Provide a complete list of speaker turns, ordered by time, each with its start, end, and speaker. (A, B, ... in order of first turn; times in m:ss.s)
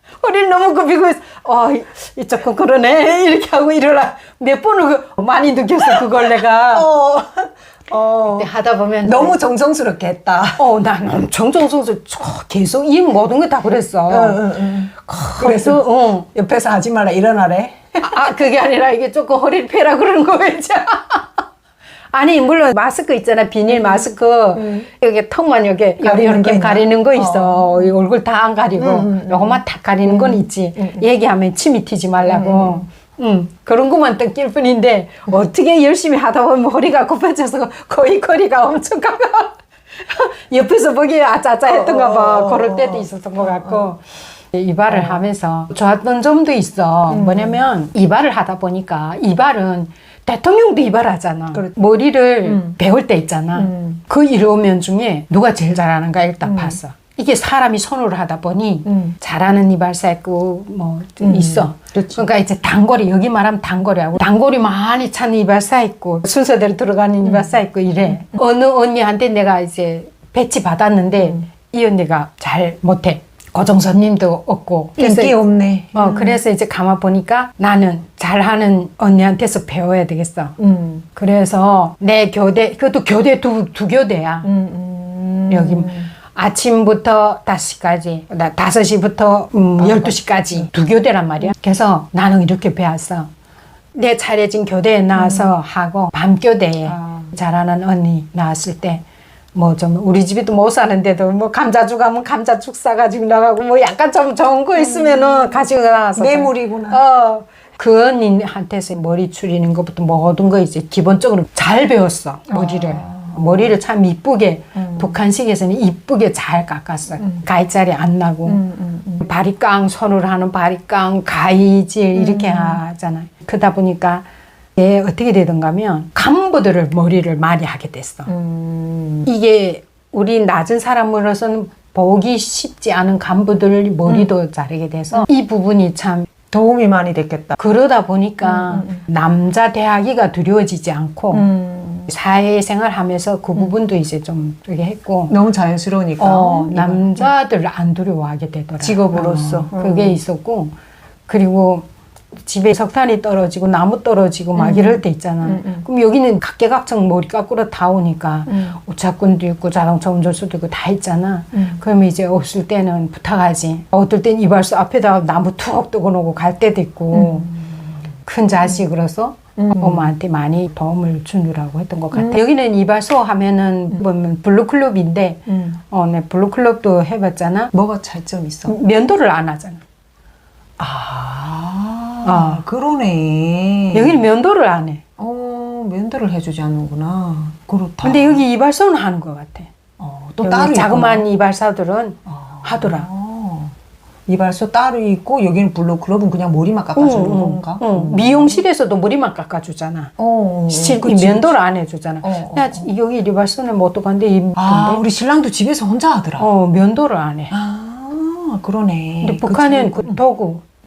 0:00.2-0:06.9 A
0:05.9-0:08.5 B
0:08.3-0:09.4 A
0:09.0-0:10.6 B
0:10.6-0:16.3 A
0:14.1-0:18.2 B
0:18.0-0:21.4 A
0:22.1-1:15.4 A
0:23.7-0:24.0 B
0:24.6-0:24.9 B
0:26.0-0:27.9 B
0:28.8-0:31.0 B
0:32.2-0:32.8 B
0:41.7-0:43.8 B
0:44.9-0:45.2 B
0:47.1-0:47.6 B
0:52.4-0:52.8 B
0:53.6-0:54.0 B
0:56.4-0:56.8 B
0:58.9-0:59.2 B
1:01.2-1:02.2 B
1:07.2-1:07.5 B
1:15.0-1:16.4 B
1:15.9-1:20.6 A
1:20.6-1:21.1 B
1:21.2-1:24.5 A
1:24.4-1:26.1 B
1:25.5-1:33.3 A
1:29.8-1:30.7 B
1:34.0-1:39.0 A
1:35.2-1:35.6 B
1:36.9-1:37.3 B
1:39.6-1:58.6 A
1:44.8-1:47.0 B
1:52.5-1:53.7 B
1:54.8-1:55.2 B
1:58.5-1:59.2 B
1:59.2-2:04.2 A
2:02.1-2:02.8 B
2:04.8-2:08.3 A
2:08.3-2:09.3 B
2:09.3-2:16.3 A
2:16.5-2:17.6 B
2:17.6-2:21.5 A
2:18.4-2:19.0 B
2:21.3-2:22.1 B
2:22.1-2:25.3 A
2:25.3-2:27.3 B
2:26.2-2:30.7 A
2:28.8-2:30.2 B
2:31.3-2:31.9 A
2:32.4-2:47.6 A
2:34.6-2:35.8 B
2:38.5-2:38.8 B
2:41.5-2:41.8 B
2:47.1-2:47.6 B
2:48.2-2:57.7 A
2:49.6-2:50.1 B
2:55.5-2:55.8 B
2:57.7-2:58.8 B
2:58.7-2:59.8 A
3:00.8-3:04.2 B
3:02.2-3:02.6 A
3:03.9-3:05.0 A
3:05.2-3:08.4 B
3:08.0-3:09.7 A
3:10.0-3:11.2 B
3:10.4-3:13.1 A
3:12.5-3:13.8 B
3:14.3-3:18.6 B
3:17.0-3:20.1 A
3:20.2-3:21.6 B
3:20.7-3:25.0 A
3:22.2-3:22.9 B
3:24.6-3:26.5 B
3:26.4-3:27.5 A
3:27.5-3:30.2 B
3:29.2-3:30.6 A